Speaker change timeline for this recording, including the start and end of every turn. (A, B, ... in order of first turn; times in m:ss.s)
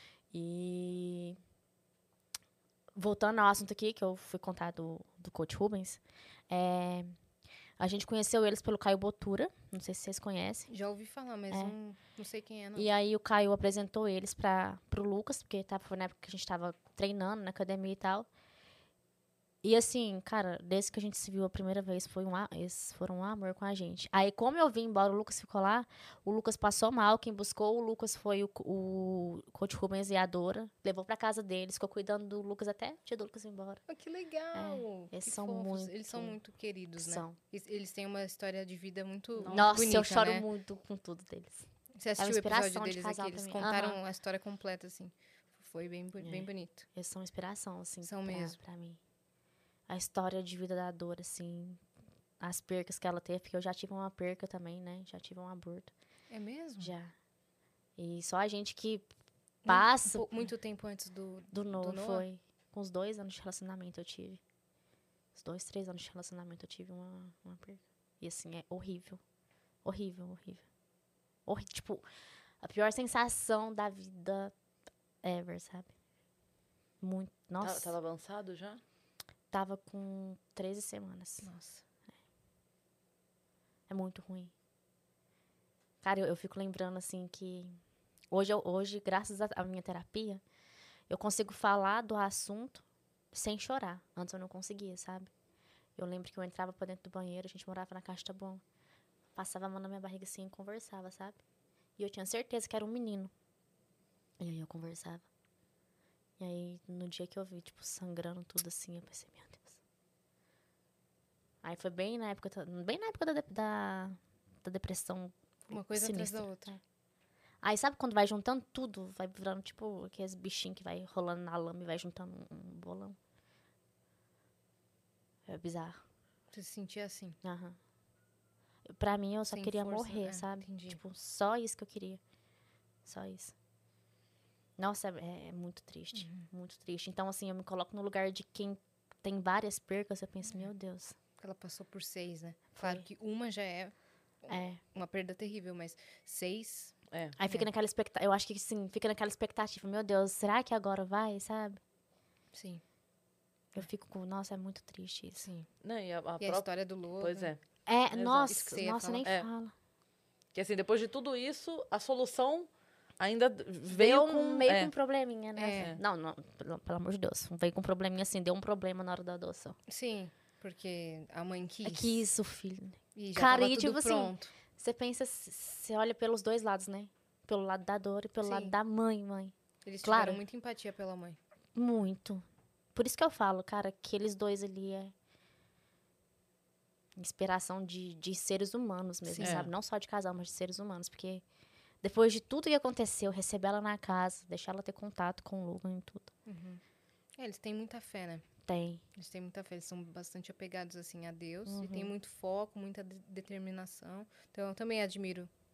0:00.3-0:01.4 A
0:03.0-0:07.1 A
0:07.8-0:10.7 A
0:10.7-0:12.9 B
0:12.8-0:18.3 A
0:19.6-0:33.8 A
0:33.9-0:40.4 B
0:34.5-0:36.4 A
0:37.0-0:37.4 A
0:39.4-0:39.8 C
0:39.5-0:41.7 A
0:42.0-0:46.8 B
0:42.2-0:44.0 A
0:46.2-0:49.0 A
0:48.0-0:48.6 B
0:49.9-0:51.8 A
0:52.4-0:55.9 A
0:56.3-0:56.9 B
0:56.8-0:57.1 A
0:58.0-0:59.1 A
0:59.6-1:00.3 A
0:59.7-1:02.2 B
1:01.5-1:04.4 A
1:05.4-1:09.2 A
1:09.8-1:10.6 A
1:11.5-1:12.0 A
1:12.6-1:14.5 A
1:15.2-1:15.9 A
1:17.0-1:17.9 A
1:17.6-1:18.8 C
1:19.5-1:21.5 A
1:21.4-1:21.8 B
1:23.9-1:24.5 A
1:26.0-1:27.8 A
1:28.3-1:30.4 A
1:31.1-1:35.3 A
1:36.0-1:38.6 A
1:39.4-1:41.4 A
1:42.0-1:43.3 A
1:44.4-1:45.2 A
1:46.4-1:49.8 A
1:51.6-1:56.8 A
1:55.7-1:56.7 B
1:57.6-2:03.2 A
2:05.5-2:06.0 A
2:06.5-2:07.4 B
2:07.4-2:07.8 A
2:08.9-2:12.2 A
2:09.5-2:11.0 B
2:13.1-2:13.5 A
2:14.8-2:21.2 A
2:16.2-2:16.5 B
2:21.4-2:23.9 B
2:22.7-2:23.0 A
2:24.4-2:27.0 B
2:24.5-2:24.8 A
2:27.4-2:31.8 A
2:32.5-2:32.8 B
2:33.7-2:35.5 A
2:35.4-2:35.7 B
2:35.8-2:36.7 C
2:36.4-2:37.5 B
2:37.2-2:37.6 C
2:37.9-2:39.7 A
2:38.1-2:38.5 C
2:38.4-2:39.3 B
2:40.5-2:42.7 C
2:43.2-2:44.9 C
2:43.9-2:49.8 A
2:45.6-2:45.9 B
2:49.9-2:52.2 B
2:51.8-3:00.4 A
2:53.2-2:54.5 B
2:58.4-2:58.7 B
2:59.9-3:01.4 B
3:01.8-3:02.4 A
3:03.0-3:05.1 A
3:07.2-3:11.4 A
3:09.3-3:09.7 B
3:09.4-3:09.7 C
3:12.0-3:16.3 A
3:16.5-3:16.8 B
3:17.4-3:18.5 B
3:18.7-3:19.0 A
3:19.2-3:25.5 B
3:21.7-3:22.1 A